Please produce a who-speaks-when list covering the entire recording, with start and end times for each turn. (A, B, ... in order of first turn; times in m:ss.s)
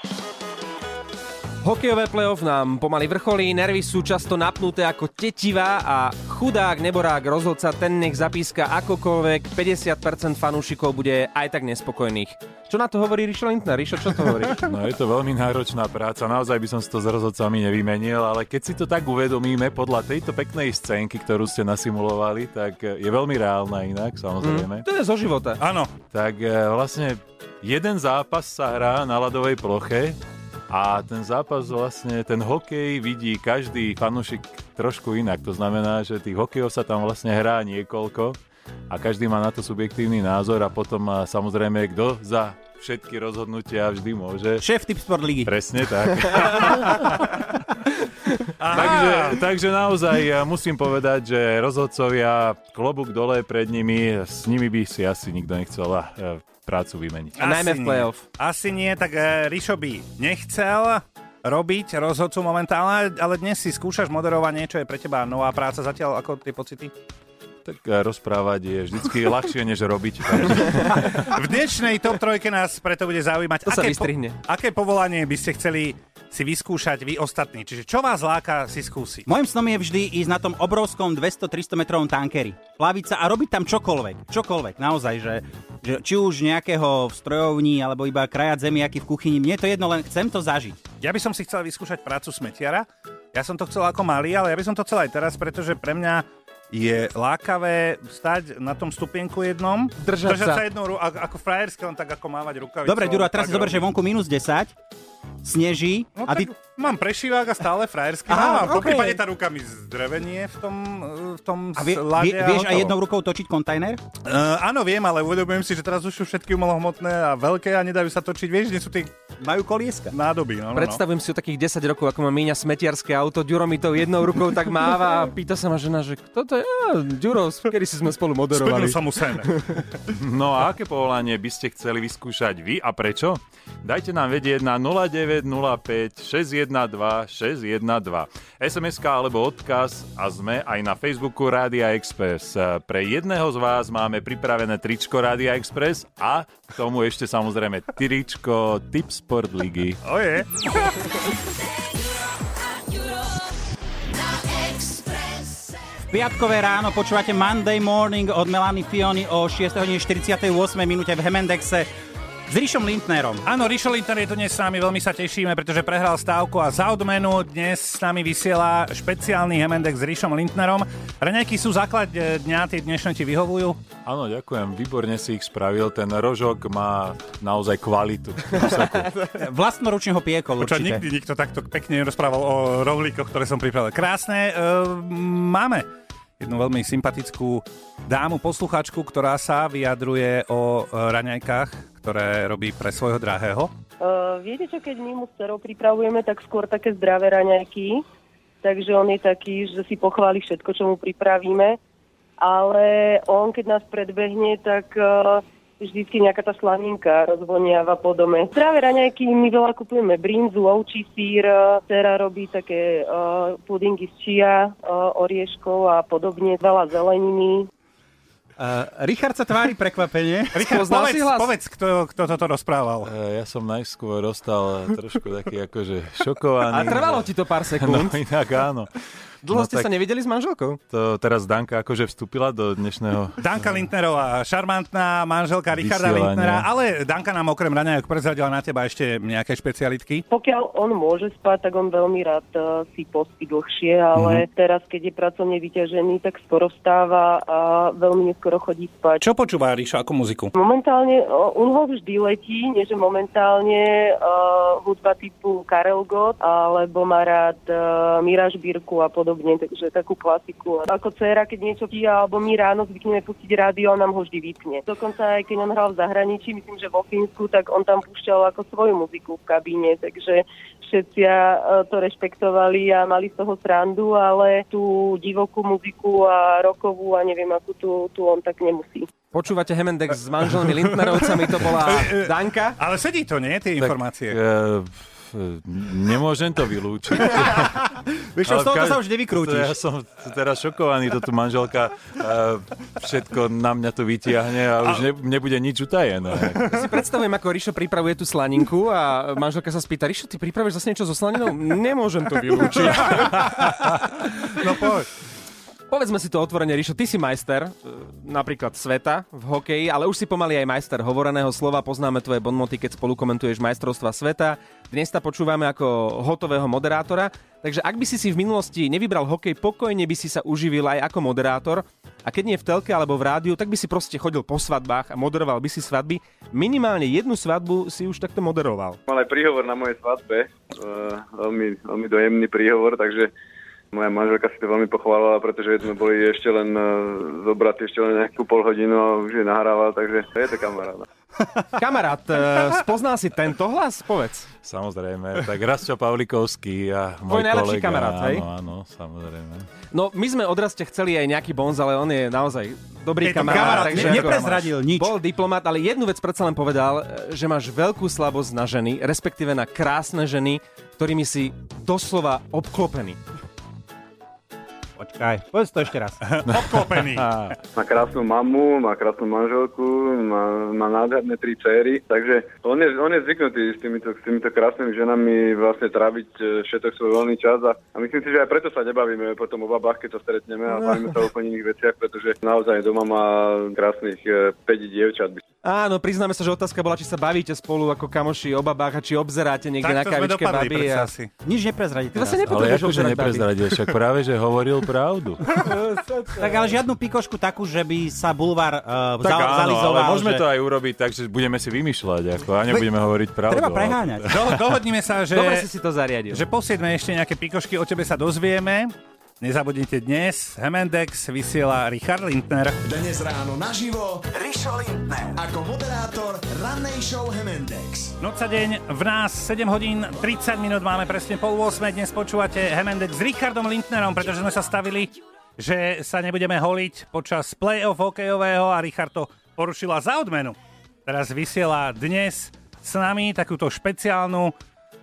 0:01.6-0:14.6 A
0:14.6-0:24.8 B
0:24.4-0:25.6 A
0:25.6-0:25.9 C
0:26.1-0:30.2 B
0:30.7-0:38.4 B
0:38.9-0:44.6 B
0:44.6-0:45.5 D
0:45.4-0:47.3 B
0:48.6-0:49.4 C
0:48.7-0:57.5 B
0:57.4-0:58.2 A
0:57.4-1:06.9 C
1:07.6-1:11.3 B
1:11.1-1:19.3 C
1:13.6-1:14.4 A
1:19.3-1:30.8 D
1:31.0-1:43.8 C
1:40.0-1:40.6 A
1:42.8-1:44.7 D
1:45.4-1:46.5 D
1:46.2-1:52.9 C
1:48.3-1:49.2 D
1:51.8-1:54.0 D
1:54.3-1:59.2 C
1:59.4-2:00.1 D
2:00.1-2:01.0 C
2:00.7-2:09.6 A
2:08.5-2:09.6 C
2:10.1-2:30.0 B
2:30.0-2:30.9 C
2:36.1-2:41.9 D
2:42.5-2:43.5 D
2:43.4-2:53.8 C
2:54.0-2:59.1 B
2:59.3-3:01.0 D
3:00.6-3:05.9 C
3:06.4-3:13.7 C
3:14.0-3:18.0 E
3:18.6-3:21.8 E
3:22.4-3:37.7 E
3:38.6-3:40.6 D
3:40.6-3:43.1 C
3:40.6-3:41.6 A
3:43.0-3:48.9 B
3:46.7-3:48.2 A
3:49.4-3:50.8 A
3:49.5-3:49.9 B
3:50.9-3:53.9 B
3:53.4-4:00.2 C
3:55.7-3:56.7 B
4:00.3-4:09.2 E
4:04.2-4:04.4 C
4:09.2-4:10.5 C
4:10.5-4:39.1 E
4:39.3-4:42.8 A
4:40.9-4:44.4 C
4:43.8-4:47.8 B
4:47.2-4:49.8 D
4:48.4-4:56.8 B
4:56.7-5:03.7 A
5:02.7-5:05.1 C
5:05.9-5:29.0 A
5:29.1-5:33.3 F
5:33.9-5:41.1 F
5:41.8-5:44.5 A
5:44.6-5:49.7 B
5:47.3-5:48.4 A
5:49.9-6:03.2 A
5:53.2-5:54.7 C
5:53.3-5:55.2 D
6:05.0-6:06.2 D
6:06.2-6:07.5 C
6:07.8-6:25.4 F
6:25.6-6:31.1 A
6:29.8-6:31.3 C
6:31.4-6:32.5 D
6:32.1-6:33.5 A
6:32.5-6:35.5 B
6:36.4-6:40.4 D
6:39.2-6:44.6 B
6:43.5-6:44.3 D
6:44.3-6:45.7 C
6:45.3-6:46.4 A
6:46.3-6:52.8 C
6:52.8-6:58.2 G
6:58.2-7:14.6 C